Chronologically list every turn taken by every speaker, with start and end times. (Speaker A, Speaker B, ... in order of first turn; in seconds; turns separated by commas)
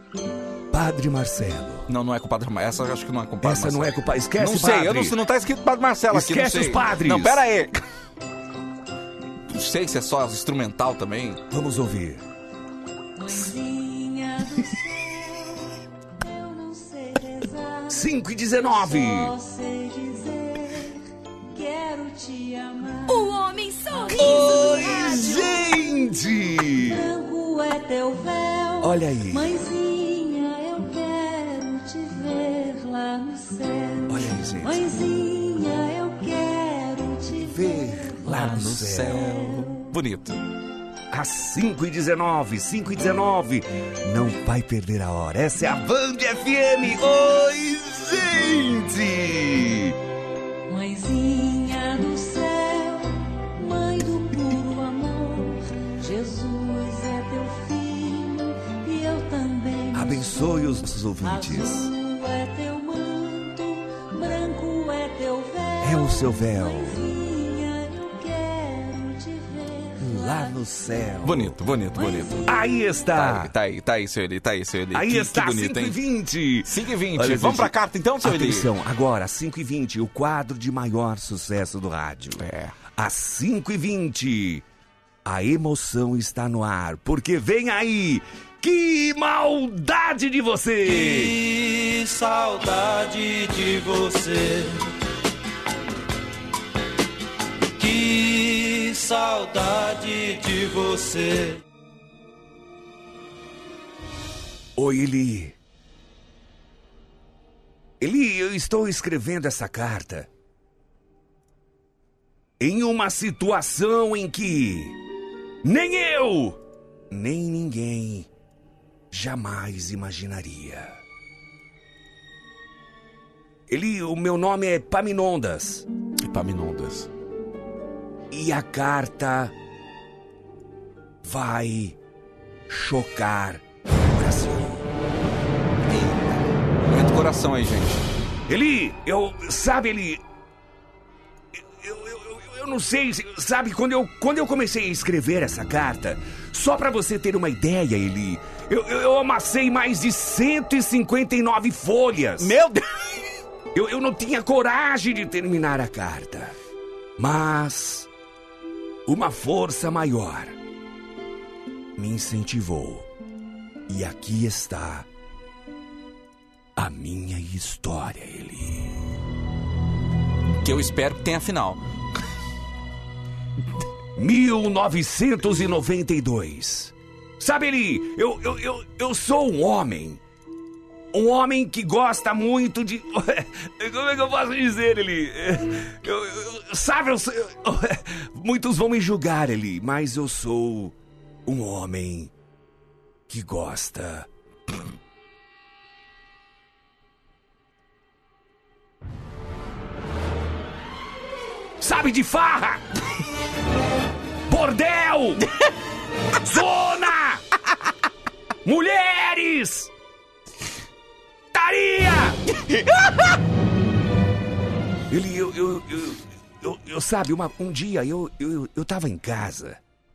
Speaker A: 0.7-1.9, Speaker B: 1.9-7.8, Speaker A: 3.4-5.2, Speaker A: 6.1-7.4, Speaker B: 9.5-11.4, Speaker A: 11.5-12.2, Speaker C: 13.2-23.4, Speaker A: 17.9-19.3, Speaker D: 23.1-25.5, Speaker C: 23.9-25.6, Speaker A: 24.1-27.0, Speaker C: 26.8-38.3, Speaker A: 28.8-29.5, Speaker A: 34.1-34.8, Speaker A: 37.3-39.5, Speaker B: 38.2-40.4, Speaker C: 39.1-39.9, Speaker A: 41.1-50.0, Speaker C: 50.7-60.4, Speaker A: 59.9-61.9, Speaker C: 61.2-70.6, Speaker A: 65.8-67.0, Speaker A: 70.0-71.6, Speaker B: 71.2-72.4, Speaker C: 72.0-72.5, Speaker A: 72.5-73.5, Speaker B: 73.1-76.0, Speaker A: 74.9-84.6, Speaker B: 76.6-78.7, Speaker B: 82.4-82.8, Speaker A: 85.2-91.4, Speaker E: 90.9-94.8, Speaker E: 97.8-101.6, Speaker A: 104.8-105.6, Speaker A: 108.0-110.3, Speaker A: 112.6-115.0, Speaker A: 115.6-118.3, Speaker A: 119.1-121.0, Speaker A: 123.7-125.8, Speaker B: 126.2-127.1, Speaker A: 128.3-129.5, Speaker A: 131.2-132.0, Speaker A: 132.7-134.8, Speaker B: 136.9-138.0, Speaker A: 138.5-140.2, Speaker A: 141.6-152.6, Speaker B: 152.4-153.2, Speaker A: 153.7-156.6, Speaker A: 157.2-158.1, Speaker A: 159.1-160.6, Speaker A: 162.0-163.1, Speaker A: 163.9-165.1, Speaker A: 166.8-169.0, Speaker B: 170.6-171.8, Speaker A: 174.2-180.2, Speaker A: 181.1-190.9, Speaker A: 191.5-192.3, Speaker A: 193.3-194.3, Speaker A: 201.8-202.8, Speaker A: 204.5-205.4, Speaker A: 206.4-207.4, Speaker A: 208.7-209.9, Speaker A: 211.5-212.4, Speaker A: 215.1-219.8